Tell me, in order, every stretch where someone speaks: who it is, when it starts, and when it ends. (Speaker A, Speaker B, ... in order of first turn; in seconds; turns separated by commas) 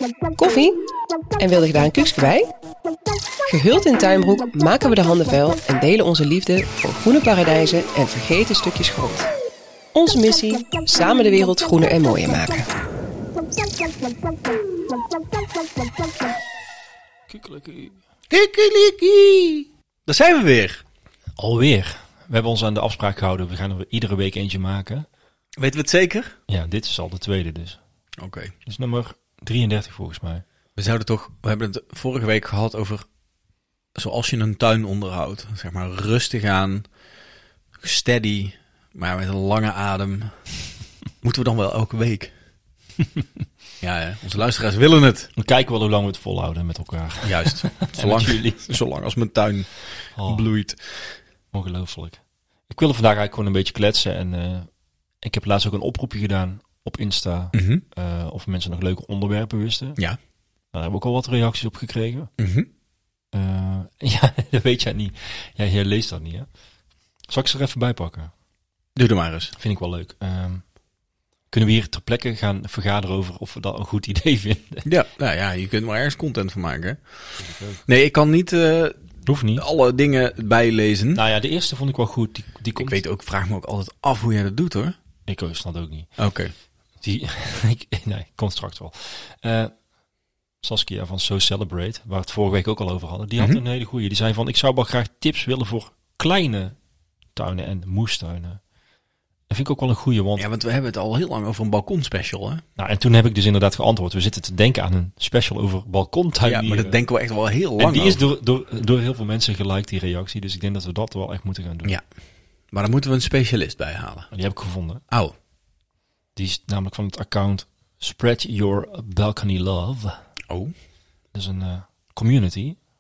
Speaker A: 0.4-0.8, Speaker A: 1.4-2.5, Speaker A: 3.5-9.3, Speaker A: 9.9-12.7, Speaker B: 17.3-18.0, Speaker C: 18.3-20.8, Speaker B: 21.4-25.1, Speaker C: 25.6-26.4, Speaker B: 26.5-27.8, Speaker C: 28.2-28.5, Speaker B: 28.7-30.4, Speaker C: 30.8-33.0, Speaker C: 34.0-36.9, Speaker C: 37.8-40.6, Speaker C: 41.2-42.3, Speaker C: 43.8-45.3, Speaker B: 45.4-48.8, Speaker C: 47.2-51.1, Speaker B: 50.2-50.5, Speaker B: 51.5-54.7, Speaker B: 55.2-60.0, Speaker C: 57.5-57.8, Speaker B: 60.7-62.3, Speaker C: 62.4-62.7, Speaker B: 63.3-66.5, Speaker B: 67.3-68.3, Speaker C: 69.0-69.5, Speaker B: 69.6-70.7, Speaker B: 71.5-74.9, Speaker C: 74.8-77.0, Speaker B: 77.4-77.8, Speaker C: 77.8-81.2, Speaker B: 79.2-79.7, Speaker B: 81.2-83.0, Speaker C: 82.8-85.0, Speaker B: 85.3-86.2, Speaker C: 86.2-86.5, Speaker B: 87.0-89.7, Speaker B: 90.6-96.8, Speaker B: 97.3-98.6, Speaker B: 99.5-100.5, Speaker C: 100.4-102.6, Speaker B: 102.8-107.0, Speaker C: 106.4-108.2, Speaker B: 107.8-111.9, Speaker C: 112.7-114.3, Speaker B: 114.3-115.0, Speaker C: 115.1-115.3, Speaker B: 116.4-120.2, Speaker B: 121.3-122.8